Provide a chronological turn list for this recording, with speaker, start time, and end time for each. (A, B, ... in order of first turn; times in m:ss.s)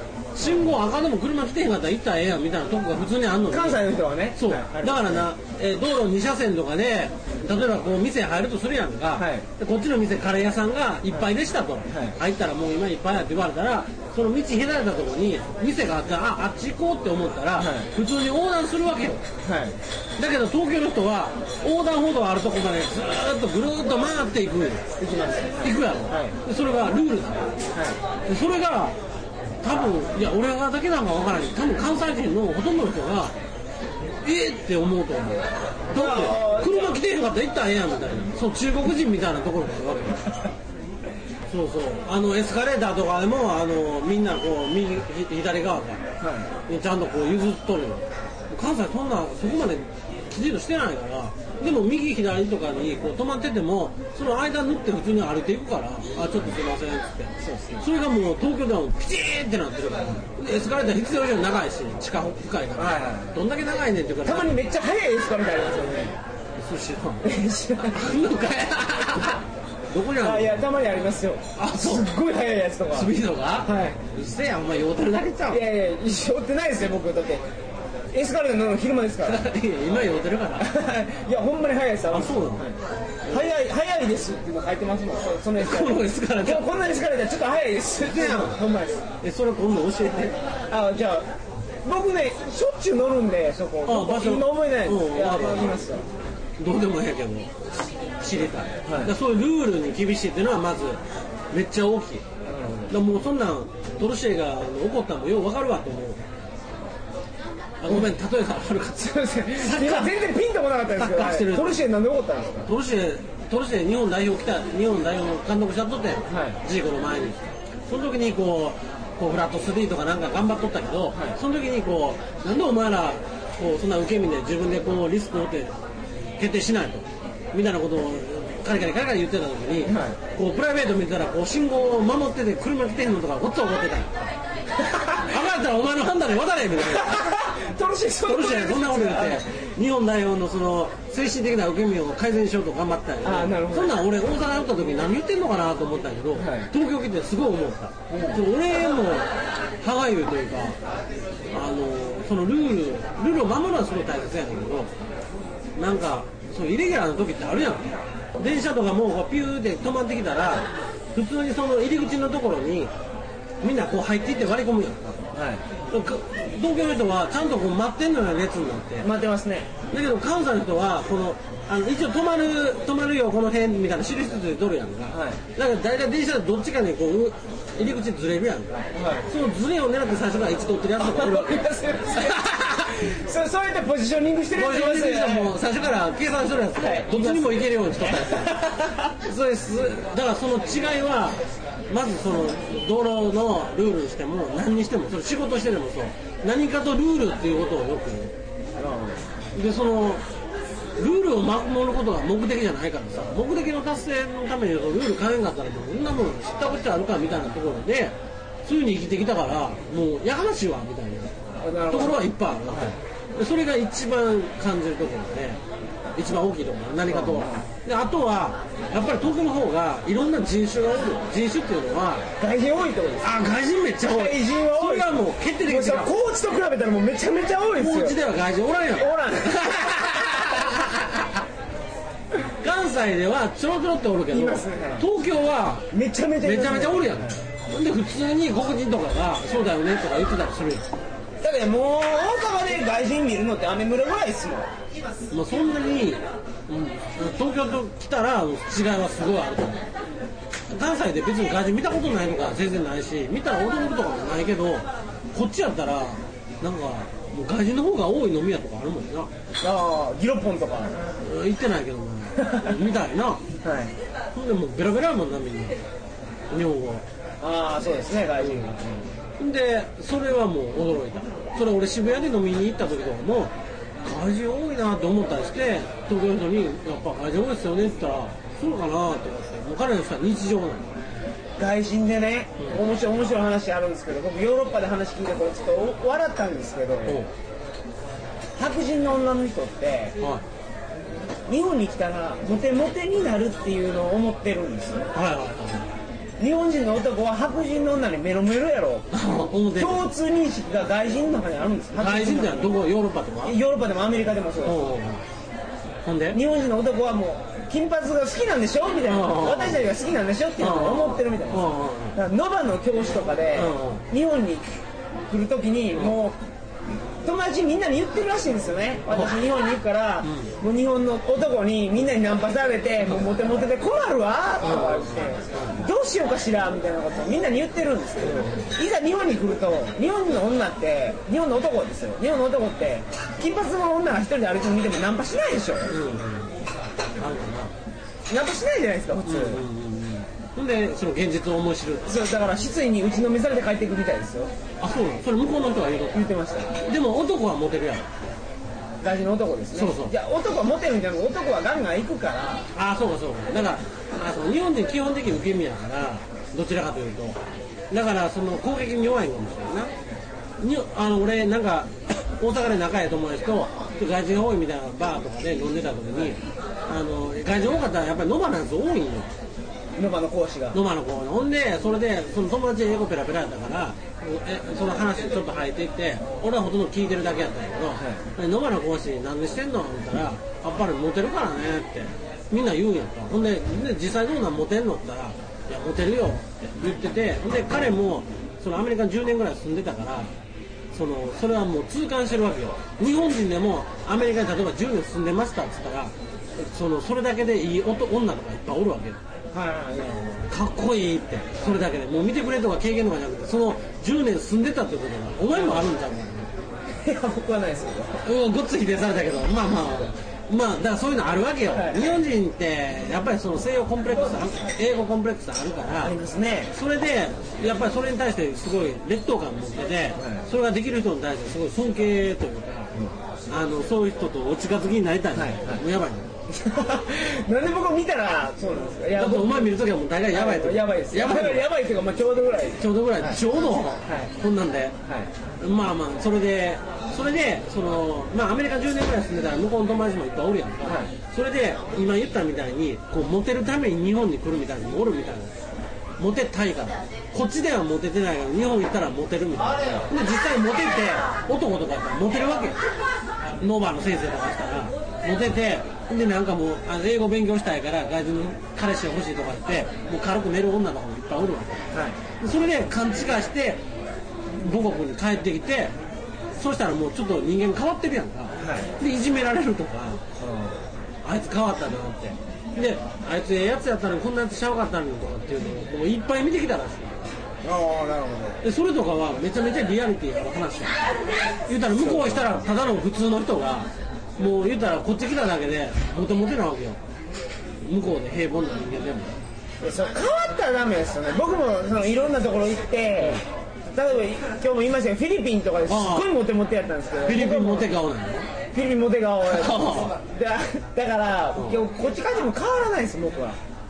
0:00.3-0:19.2 A
0:03.5-0:05.2 B
0:09.2-0:09.4 B
0:11.9-0:12.2 B
0:17.6-0:17.9 B
0:19.4-0:19.8 B
0:20.2-0:24.8 A
0:25.0-0:26.4 B
0:25.6-0:27.5 A
0:28.3-0:28.9 A
0:29.6-0:33.3 A
0:34.2-0:40.3 A
0:35.9-0:37.0 B
0:41.5-0:46.0 A
0:46.2-0:46.5 B
0:46.7-1:04.5 A
0:57.4-0:57.8 B
1:02.8-1:03.4 B
1:04.2-1:06.2 B
1:06.6-1:07.3 A
1:07.2-1:08.1 B
1:07.9-1:10.6 A
1:10.2-1:14.0 B
1:11.6-1:12.1 A
1:12.9-1:15.6 A
1:15.5-1:17.4 B
1:18.1-1:19.5 B
1:19.2-1:20.7 A
1:20.6-1:29.0 B
1:22.1-1:22.6 A
1:23.3-1:23.5 A
1:25.6-1:26.7 A
1:28.0-1:28.6 A
1:29.2-1:30.4 A
1:30.7-1:31.3 B
1:31.8-1:36.0 B
1:33.8-1:35.8 A
1:36.6-1:37.7 A
1:38.2-1:42.2 A
1:38.8-1:39.1 B
1:42.4-1:42.9 B
1:42.9-1:46.2 A
1:47.8-1:50.2 A
1:49.0-1:52.7 B
1:50.9-1:51.8 A
1:52.6-2:05.7 A
1:56.3-1:56.6 B
2:06.4-2:14.3 A
2:09.8-2:10.2 B
2:14.8-2:15.3 B
2:15.2-2:17.4 A
2:16.9-2:19.4 B
2:18.2-2:29.3 A
2:23.2-2:24.0 B
2:26.4-2:26.7 B
2:28.1-2:28.4 B
2:29.8-2:30.8 A
2:31.5-2:34.9 A
2:35.8-2:42.9 A
2:43.6-2:45.3 A
2:45.3-2:45.6 B
2:45.9-2:49.1 A
2:49.0-2:49.7 B
2:49.9-3:02.9 A
2:55.1-2:55.4 B
2:58.9-2:59.3 B
3:01.0-3:05.5 B
3:04.5-3:18.4 A
3:06.8-3:09.1 B
3:18.8-3:19.2 B
3:19.5-3:20.2 A
3:21.0-3:31.3 A
3:31.6-3:33.0 B
3:31.9-3:35.6 A
3:36.2-3:42.3 A
3:37.1-3:37.6 B
3:42.4-3:43.4 B
3:43.2-3:46.1 A
3:44.0-3:48.2 B
3:47.8-3:51.4 A
3:49.0-3:50.6 B
3:52.6-3:55.9 A
3:54.3-3:55.1 B
3:55.9-3:57.4 B
3:56.4-4:00.9 A
4:01.4-4:04.7 B
4:05.3-4:09.9 A
4:10.7-4:19.3 A
4:19.6-4:21.0 B
4:21.2-4:23.4 A
4:22.4-4:22.7 B
4:23.6-4:23.9 B
4:24.3-4:25.8 A
4:26.5-4:27.0 A
4:27.4-4:29.1 B
4:28.4-4:28.7 A
4:29.4-4:40.9 A
4:41.6-4:47.2 B
4:47.0-4:47.3 A
4:48.6-4:50.2 B
4:50.2-4:50.4 A
4:51.5-4:55.1 B
4:55.1-4:55.9 A
4:56.4-4:59.1 B
4:59.1-5:00.0 A
4:59.8-5:02.8 B
5:02.0-5:03.6 A
5:03.4-5:04.8 B
5:04.6-5:05.2 A
5:06.0-5:06.4 A
5:06.3-5:14.7 B
5:09.1-5:09.8 A
5:10.6-5:12.2 A
5:13.5-5:14.0 A
5:15.3-5:16.4 B
5:17.2-5:35.9 B
5:20.2-5:20.5 A
5:24.6-5:25.8 A
5:28.2-5:28.7 A
5:35.9-5:36.5 A
5:37.2-5:37.7 A
5:38.3-5:39.6 B
5:39.2-5:42.1 A
5:42.0-5:44.5 B
5:44.8-5:48.1 A
5:46.1-5:46.7 B
5:49.0-5:52.6 B
5:49.7-5:50.1 A
5:52.7-5:57.4 A
5:57.9-5:59.9 A
6:00.6-6:09.3 A
6:10.0-6:10.8 B
6:10.7-6:30.3 A
6:18.0-6:18.2 B
6:30.9-6:39.2 A
6:39.5-6:40.5 B
6:40.5-6:46.5 A
6:41.6-6:41.8 B
6:47.0-6:48.2 B
6:48.2-6:56.1 A
6:51.7-6:52.1 B
6:56.0-6:56.7 B
6:56.7-7:02.9 A
7:00.2-7:00.5 B
7:03.5-7:06.3 A
7:05.3-7:05.8 B
7:06.5-7:13.4 B
7:09.1-7:11.7 A
7:12.8-7:15.0 A
7:14.0-7:14.3 B
7:15.0-7:15.3 B
7:15.6-7:25.5 A
7:20.8-7:21.1 B
7:26.2-7:32.8 A
7:33.6-7:41.9 A
7:41.9-7:42.2 B
7:42.4-7:43.8 A
7:44.5-7:46.0 A
7:46.5-7:50.2 A
7:48.6-7:48.9 B
7:50.4-7:50.8 B
7:51.2-7:57.3 A
7:57.6-7:58.6 B
7:58.6-8:00.9 A
8:01.7-8:07.0 A
8:02.0-8:02.6 B
8:07.8-8:09.4 A
8:09.8-8:17.9 B
8:15.8-8:16.3 A
8:17.2-8:18.5 A
8:18.7-8:23.6 B
8:19.5-8:20.2 A
8:21.5-8:21.8 A